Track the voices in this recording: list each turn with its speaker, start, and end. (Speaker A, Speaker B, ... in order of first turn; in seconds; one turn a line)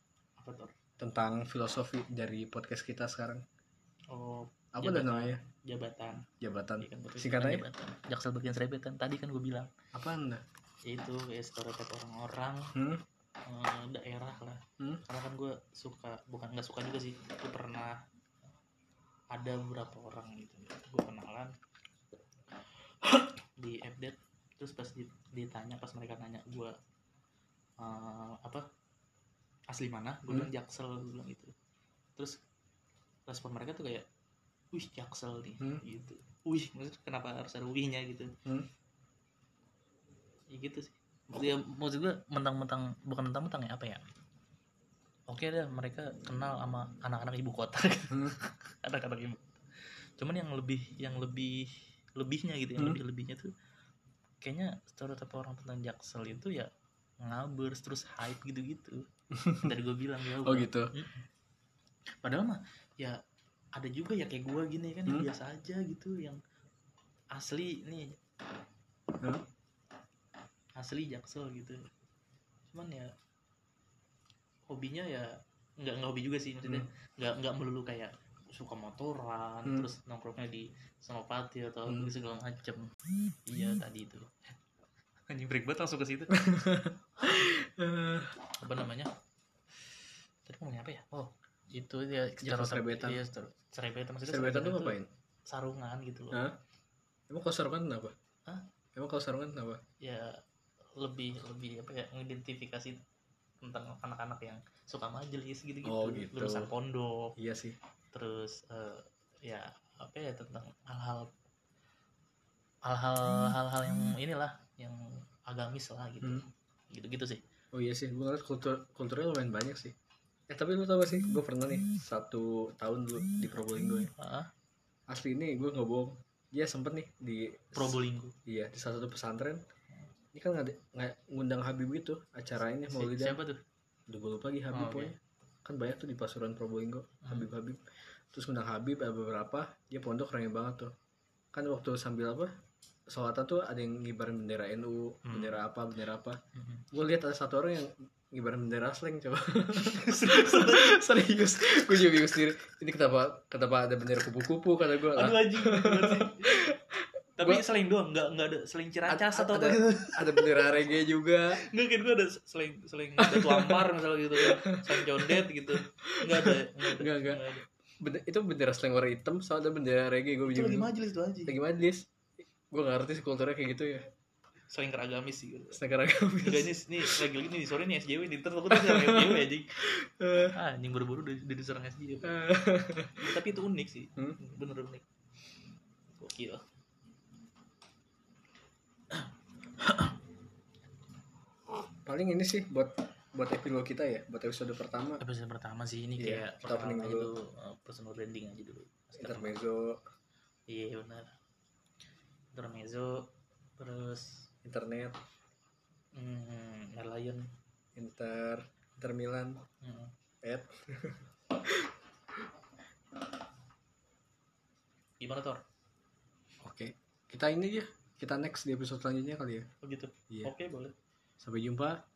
Speaker A: 0.4-0.8
Speaker B: 1.0-3.4
Speaker A: 4.1-6.3
Speaker B: 4.8-5.4
Speaker B: 6.4-7.7
Speaker A: 6.8-9.7
Speaker B: 9.9-10.4
Speaker A: 10.9-12.7
Speaker B: 12.8-13.0
Speaker A: 13.5-18.0
Speaker A: 19.3-21.5
Speaker A: 23.1-26.7
Speaker A: 27.8-28.6
Speaker A: 29.7-31.5
Speaker A: 33.3-34.1
Speaker A: 34.7-38.3
Speaker A: 40.5-44.0
Speaker A: 45.3-49.5
Speaker A: 50.2-51.6
Speaker A: 52.2-53.5
Speaker A: 54.4-56.7
Speaker A: 57.2-59.0
Speaker B: 59.3-59.8
Speaker A: 59.6-61.2
Speaker B: 60.4-60.9
Speaker A: 62.2-63.2
Speaker A: 63.8-66.4
Speaker A: 67.4-68.2
Speaker A: 70.8-71.8
Speaker A: 72.7-73.1
Speaker A: 74.7-75.3
Speaker A: 75.8-82.9
Speaker B: 81.9-82.1
Speaker A: 83.5-84.5
Speaker A: 85.3-86.4
Speaker B: 86.3-88.3
Speaker A: 88.6-89.1
Speaker A: 90.5-95.0
Speaker B: 92.4-93.2
Speaker B: 94.3-95.1
Speaker A: 95.5-96.4
Speaker B: 96.3-96.6
Speaker B: 97.3-98.1
Speaker B: 99.0-99.8
Speaker A: 100.0-100.4
Speaker A: 101.0-103.0
Speaker A: 103.6-107.3
Speaker B: 105.8-106.7
Speaker B: 107.4-107.8
Speaker A: 108.1-111.3
Speaker A: 112.9-117.4
Speaker B: 117.7-119.9
Speaker B: 120.5-124.1
Speaker A: 124.2-124.5
Speaker B: 125.1-128.0
Speaker A: 127.7-128.3
Speaker B: 128.5-129.6
Speaker B: 130.3-133.4
Speaker A: 132.9-133.6
Speaker B: 134.1-137.8
Speaker A: 134.7-135.1
Speaker B: 138.3-140.9
Speaker B: 141.5-142.5
Speaker B: 143.1-146.4
Speaker A: 145.3-145.6
Speaker A: 146.6-146.9
Speaker B: 146.9-157.6
Speaker A: 149.8-151.0
Speaker A: 155.1-156.7
Speaker A: 157.4-160.8
Speaker B: 159.1-161.6
Speaker A: 161.5-167.7
Speaker B: 163.2-163.9
Speaker B: 164.4-167.5
Speaker B: 168.0-170.9
Speaker A: 170.5-171.6
Speaker B: 171.5-172.1
Speaker B: 172.7-174.1
Speaker A: 174.7-175.8
Speaker B: 175.7-177.3
Speaker A: 176.4-179.8
Speaker B: 178.7-180.5
Speaker A: 180.3-182.4
Speaker B: 182.2-183.3
Speaker A: 183.2-185.0
Speaker A: 186.2-186.6
Speaker A: 189.8-190.2
Speaker B: 192.1-195.2
Speaker A: 195.2-199.6
Speaker B: 196.2-197.3
Speaker B: 199.2-200.0
Speaker A: 200.7-201.3
Speaker A: 202.5-203.3
Speaker A: 203.8-204.5
Speaker B: 204.7-205.2
Speaker A: 206.2-207.5
Speaker B: 208.0-209.6
Speaker A: 209.8-210.1
Speaker B: 210.4-211.9
Speaker A: 215.2-215.6
Speaker B: 216.6-219.7
Speaker A: 219.8-220.9
Speaker B: 221.4-222.0